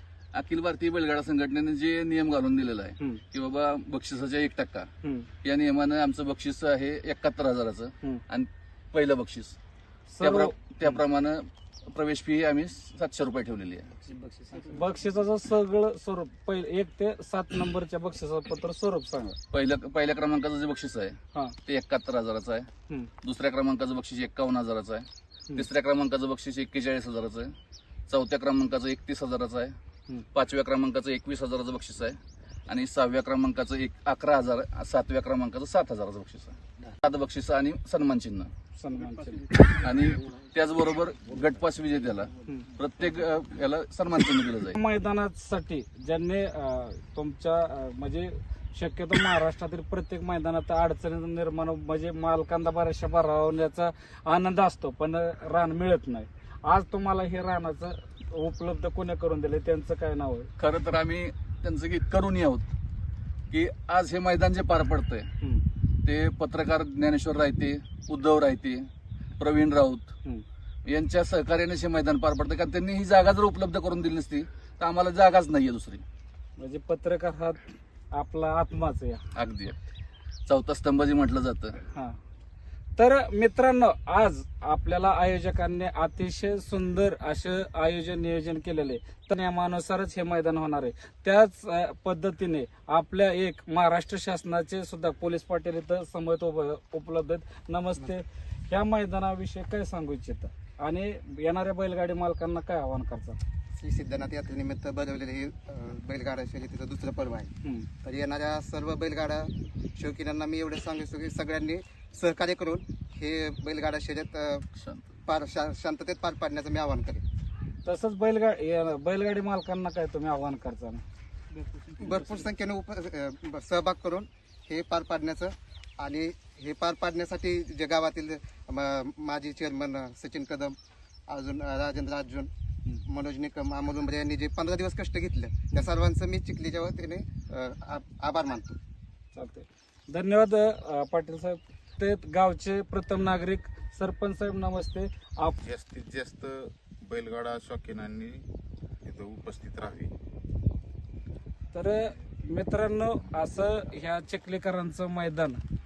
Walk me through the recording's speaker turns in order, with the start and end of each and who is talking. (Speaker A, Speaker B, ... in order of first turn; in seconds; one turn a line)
Speaker A: 0.3-4.9
Speaker B: 5.0-5.3
Speaker A: 5.4-9.6
Speaker B: 10.1-11.0
Speaker A: 10.2-13.9
Speaker B: 14.7-19.4
Speaker A: 19.5-22.7
Speaker A: 23.2-27.5
Speaker A: 28.1-29.8
Speaker A: 30.3-38.5
Speaker B: 38.8-39.8
Speaker A: 39.6-44.8
Speaker B: 44.8-60.5
Speaker A: 60.6-62.7
Speaker A: 63.5-65.3
Speaker A: 66.0-68.9
Speaker A: 69.4-70.1
Speaker A: 70.9-76.0
Speaker B: 76.6-77.6
Speaker B: 78.1-79.2
Speaker A: 79.3-79.8
Speaker A: 80.5-81.8
Speaker B: 83.0-103.4
Speaker C: 103.8-107.5
Speaker B: 107.6-107.9
Speaker C: 108.0-114.6
Speaker A: 114.8-115.0
Speaker C: 115.2-117.2
Speaker B: 117.8-121.0
Speaker C: 122.0-132.5
Speaker C: 133.1-138.8
Speaker B: 139.3-145.6
Speaker D: 145.6-148.4
Speaker D: 149.0-150.1
Speaker B: 151.7-155.6